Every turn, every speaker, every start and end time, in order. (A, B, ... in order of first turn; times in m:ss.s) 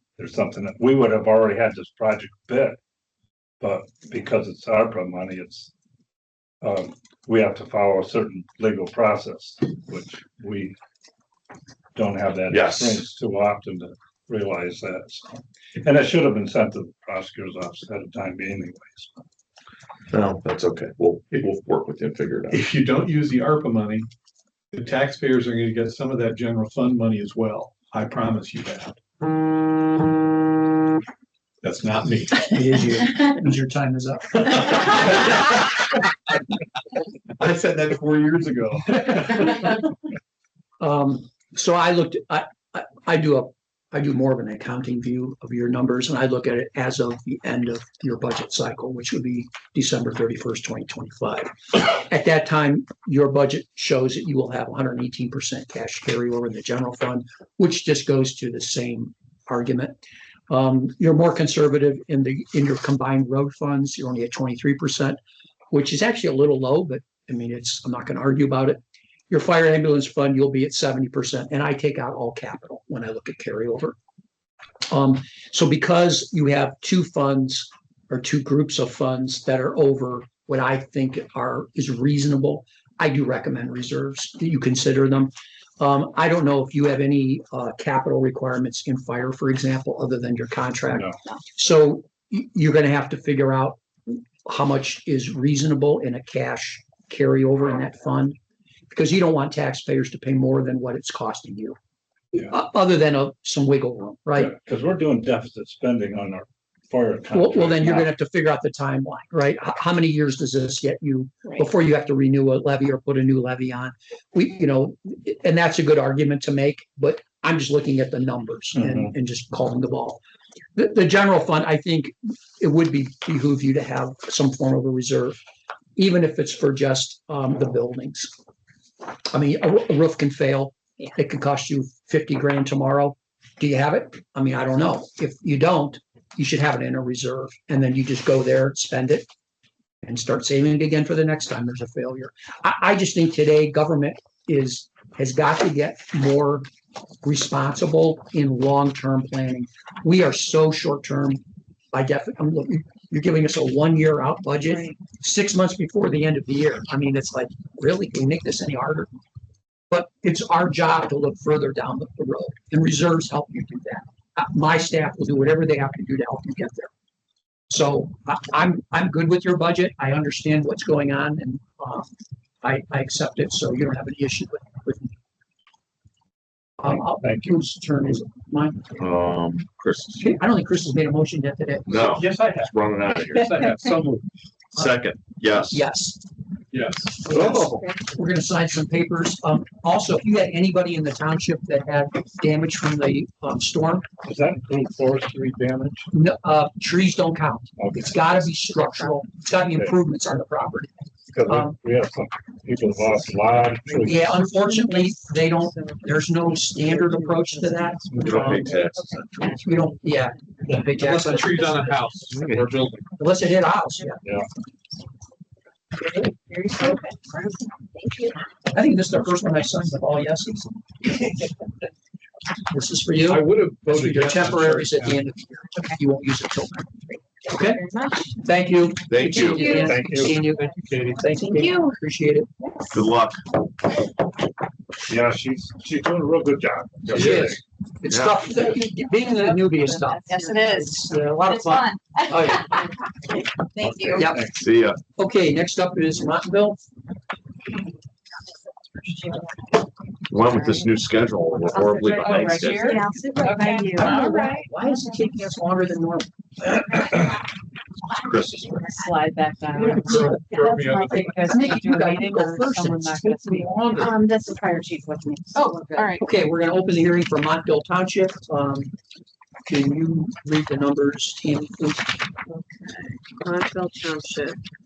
0:00.2-0:02.8 A
0:03.6-0:05.7 A
0:06.6-0:10.8 A
0:12.0-0:19.1 A
0:12.5-0:13.0 B
0:20.1-0:22.6 B
0:22.5-0:24.1 C
0:24.7-0:29.0 C
0:31.6-0:32.5 C
0:32.5-0:35.2 D
0:37.4-0:39.7 C
0:40.8-1:05.2 D
1:05.7-1:14.0 D
1:14.9-1:38.4 D
1:38.9-1:41.8 D
1:42.3-1:44.5 D
1:44.4-1:48.1 A
1:47.3-2:00.2 D
1:58.8-1:59.1 A
2:00.8-2:05.4 D
2:06.0-2:08.3 D
2:09.3-2:19.3 D
2:20.0-2:26.7 D
2:27.2-2:31.4 D
2:31.9-2:39.1 D
2:39.9-2:46.9 D
2:47.7-2:52.1 D
2:52.6-2:55.2 D
2:56.8-2:58.9 D
2:57.0-2:57.6 A
2:59.0-3:00.3 B
3:00.2-3:01.9 D
3:01.9-3:03.6 B
3:01.9-3:02.8 C
3:03.4-3:04.2 C
3:04.7-3:05.8 B
3:05.6-3:06.2 D
3:06.7-3:07.4 C
3:07.2-3:14.1 D
3:14.2-3:16.1 A
3:16.1-3:20.9 D
3:17.8-3:18.5 A
3:21.3-3:24.4 A
3:21.5-3:21.8 D
3:24.0-3:28.8 D
3:24.0-3:29.8 E
3:28.2-3:28.6 A
3:28.2-3:29.6 B
3:29.6-3:32.2 D
3:31.0-3:32.4 C
3:32.3-3:32.7 B
3:33.2-3:34.2 D
3:36.1-3:38.4 E
3:38.7-3:40.7 D
3:42.7-3:46.9 D
3:43.3-3:45.2 C
3:47.5-3:52.5 D
3:47.5-3:48.3 E
3:49.1-3:49.9 B
3:49.8-3:50.4 A
3:51.4-3:51.9 E
3:52.9-3:53.4 B
3:55.1-3:57.6 A
3:57.1-3:57.4 B
3:57.1-4:02.9 D
3:58.1-3:58.4 B
4:00.1-4:02.6 E
4:03.8-4:04.6 A
4:03.8-4:04.2 E
4:04.1-4:04.6 D
4:04.6-4:05.0 B
4:05.2-4:06.9 D
4:10.3-4:13.0 B
4:11.7-4:14.6 E
4:12.2-4:12.9 F
4:13.4-4:14.6 F
4:13.9-4:17.2 D
4:18.2-4:19.0 B
4:18.9-4:26.2 E
4:19.7-4:21.6 C
4:19.9-4:20.4 D
4:21.4-4:24.2 D
4:25.9-4:26.2 F
4:26.2-4:28.9 D
4:29.7-4:32.2 D
4:32.8-4:34.6 F